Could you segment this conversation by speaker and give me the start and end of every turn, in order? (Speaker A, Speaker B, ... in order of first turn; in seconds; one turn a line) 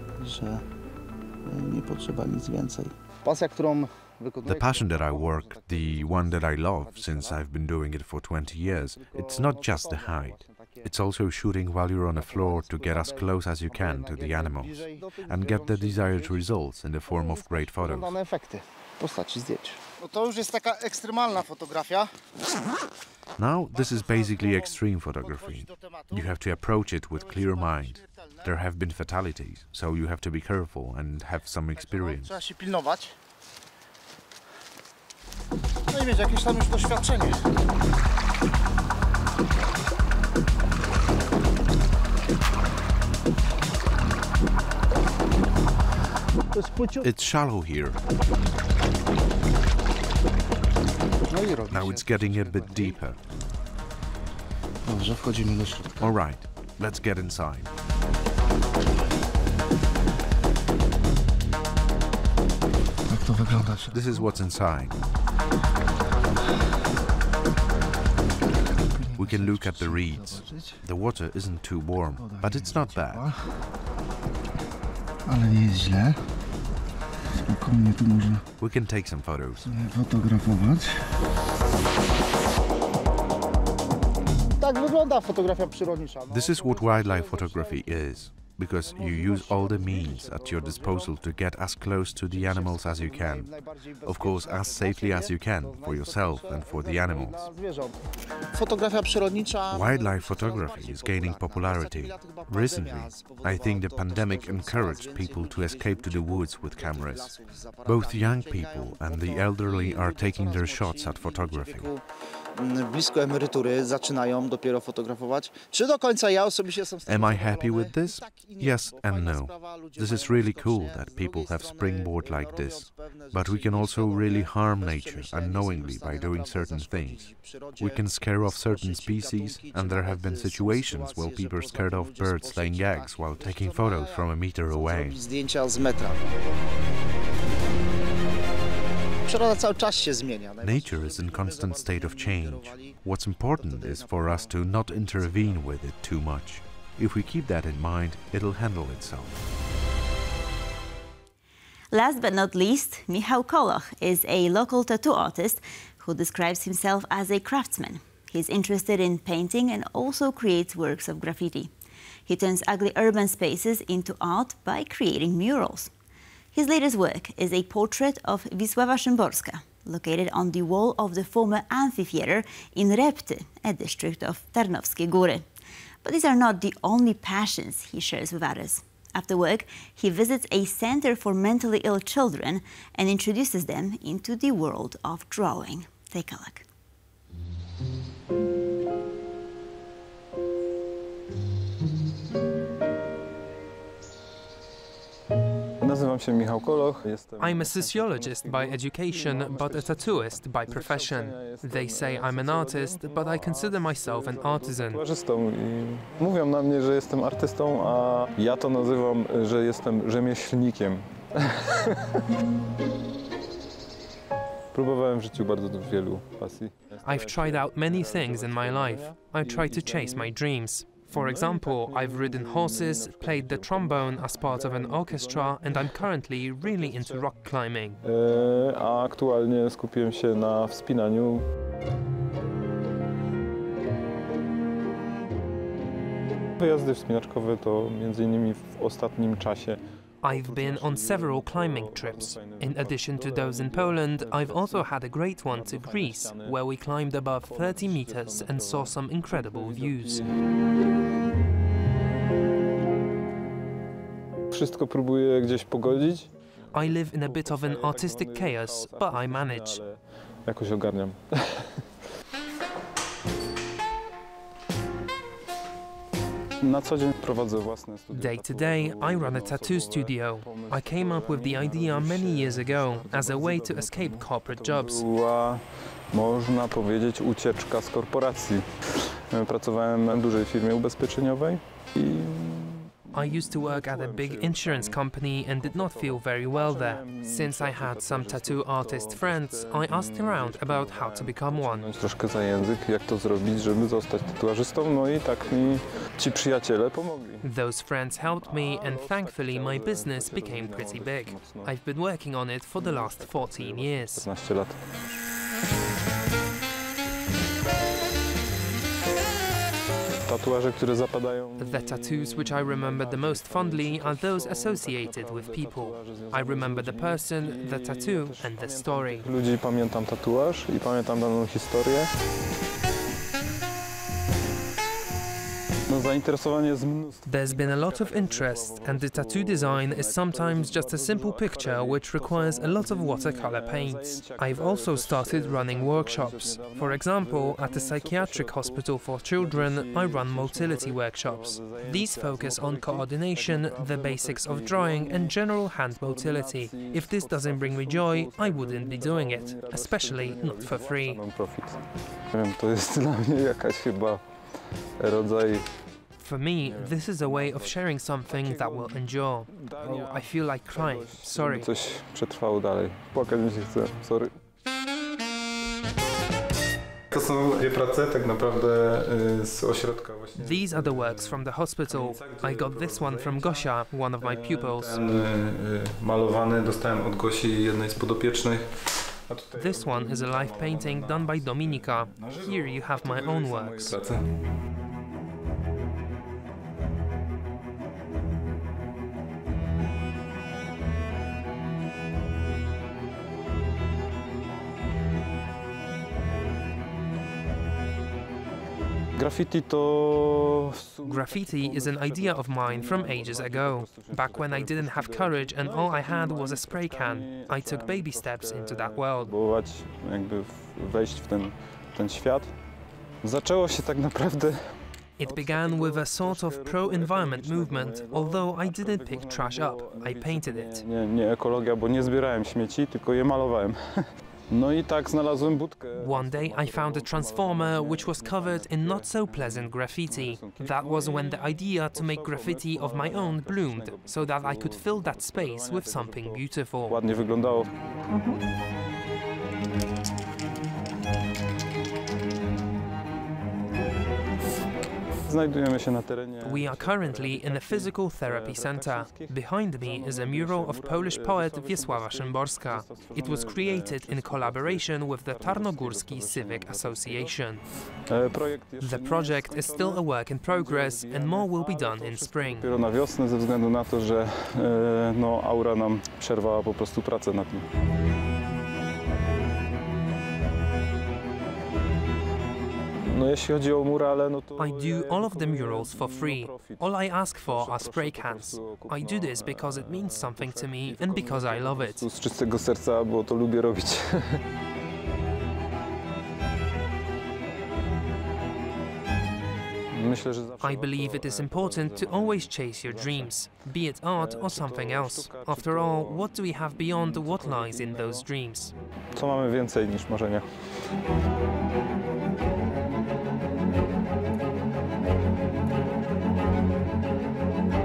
Speaker A: 0.2-0.6
Speaker A: 1.4-5.9
Speaker B: 4.4-18.1
Speaker A: 9.5-10.7
Speaker A: 12.3-13.2
Speaker A: 13.7-15.7
Speaker A: 17.1-22.1
Speaker B: 23.4-32.5
Speaker A: 32.5-33.1
Speaker A: 35.9-37.4
Speaker A: 46.5-47.1
Speaker B: 47.0-48.0
Speaker A: 51.2-53.0
Speaker B: 51.7-53.2
Speaker A: 54.8-56.1
Speaker B: 56.0-57.7
Speaker A: 63.1-63.9
Speaker B: 63.9-65.0
Speaker A: 69.0-70.8
Speaker B: 69.2-73.3
Speaker A: 72.2-73.2
Speaker A: 75.3-76.2
Speaker A: 77.3-78.5
Speaker B: 78.6-79.6
Speaker A: 79.6-81.1
Speaker A: 84.6-87.6
Speaker B: 86.3-97.5
Speaker A: 89.2-90.6
Speaker A: 97.1-97.9
Speaker A: 98.6-99.5
Speaker B: 99.7-112.0
Speaker B: 117.0-135.3
Speaker A: 135.6-136.2
Speaker A: 139.3-140.6
Speaker B: 140.6-149.4
Speaker C: 151.9-161.7
Speaker C: 162.2-165.9
Speaker C: 166.5-175.4
Speaker C: 176.0-186.6
Speaker D: 195.8-211.9
Speaker E: 197.4-205.0
Speaker D: 214.7-231.4
Speaker E: 217.0-228.0
Speaker D: 236.6-250.3
Speaker E: 240.2-250.2
Speaker D: 254.5-261.8
Speaker E: 256.7-259.9
Speaker D: 266.6-297.5
Speaker E: 268.1-275.0
Speaker E: 283.1-291.9
Speaker E: 297.4-304.3
Speaker D: 298.3-302.0
Speaker D: 302.7-304.9
Speaker D: 310.2-322.1
Speaker E: 311.6-319.3
Speaker D: 325.9-356.0
Speaker E: 327.2-351.5
Speaker E: 356.2-361.7
Speaker D: 356.6-364.3
Speaker D: 367.1-384.2
Speaker E: 370.4-375.0
Speaker E: 379.6-384.0
Speaker D: 399.1-438.0
Speaker E: 401.1-409.3
Speaker E: 415.2-420.8
Speaker E: 426.0-437.0
Speaker D: 445.2-467.6
Speaker E: 446.4-457.8
Speaker E: 458.8-462.7
Speaker D: 473.0-484.4
Speaker E: 474.6-482.1
Speaker D: 489.9-498.3
Speaker E: 490.6-498.7
Speaker D: 499.1-500.8